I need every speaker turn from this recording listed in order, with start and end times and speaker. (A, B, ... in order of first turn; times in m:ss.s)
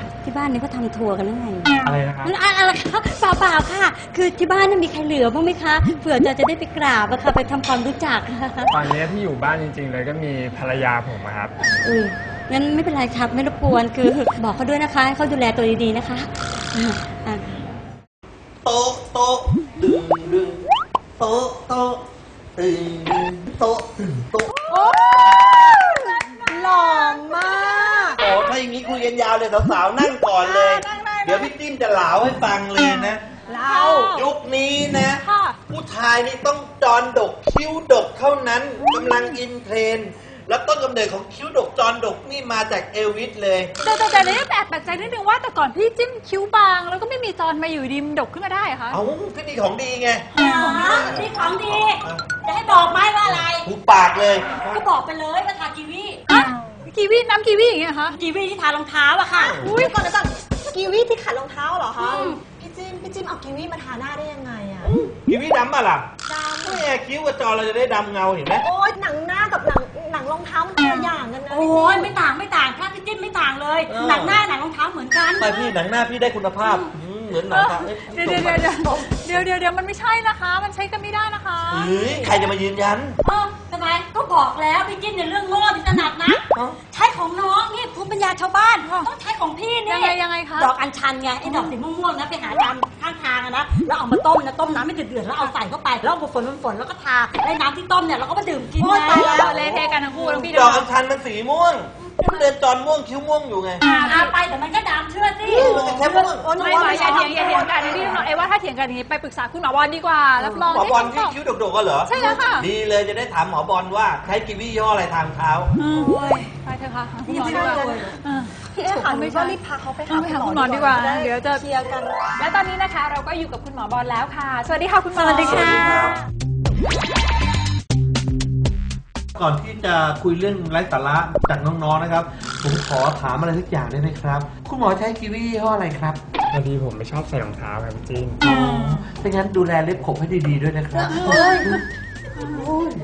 0:00.2-0:08.7 A
0:01.8-0:02.3 B
0:08.7-0:11.5 B
0:11.8-0:17.4 A
0:18.6-0:20.6 C
0:21.2-0:22.0 C
0:22.6-0:24.5 C
0:24.7-0:28.2 D
0:24.7-0:28.2 E
0:28.2-0:33.2 C
0:30.3-0:31.5 E
0:33.4-0:34.2 D
0:33.5-0:34.3 E
0:34.1-0:43.7 C
0:35.0-0:35.6 E
0:38.8-0:39.4 E
0:43.8-0:44.4 D
0:43.8-0:49.0 E
0:48.9-0:50.2 C
0:50.3-0:51.2 E
0:50.4-0:53.7 A
0:50.8-0:52.2 C
0:53.4-0:54.8 C
0:54.5-0:56.2 A
0:56.3-0:58.2 E
0:58.1-0:59.6 A
0:59.3-0:59.7 C
0:59.6-1:00.0 E
0:59.7-1:05.0 D
1:02.0-1:02.4 A
1:04.8-1:08.6 C
1:06.3-1:07.0 D
1:08.6-1:12.1 D
1:11.5-1:15.7 A
1:13.9-1:14.4 C
1:15.4-1:19.2 C
1:16.6-1:16.9 E
1:17.4-1:21.9 E
1:21.7-1:23.2 C
1:21.7-1:22.4 D
1:23.2-1:39.5 A
1:28.8-1:29.1 E
1:29.9-1:30.7 E
1:31.4-1:31.7 E
1:38.8-1:40.9 E
1:38.9-1:39.5 D
1:39.2-1:43.8 C
1:40.0-1:40.4 D
1:42.2-1:42.5 E
1:43.8-1:44.3 E
1:43.9-1:48.2 A
1:45.5-1:48.3 D
1:45.5-1:46.5 C
1:45.6-1:46.0 E
1:46.6-1:51.4 E
1:50.7-1:55.7 C
1:52.0-1:52.7 E
1:52.2-1:52.5 D
1:55.7-2:01.6 E
1:55.9-1:56.5 A
1:57.2-2:02.3 D
1:57.3-1:58.0 A
2:02.4-2:05.8 E
2:05.1-2:06.2 A
2:05.4-2:06.2 C
2:09.3-2:16.2 C
2:16.5-2:18.4 B
2:18.4-2:21.8 C
2:18.4-2:19.0 E
2:21.0-2:21.8 E
2:21.3-2:21.7 D
2:22.4-2:22.7 E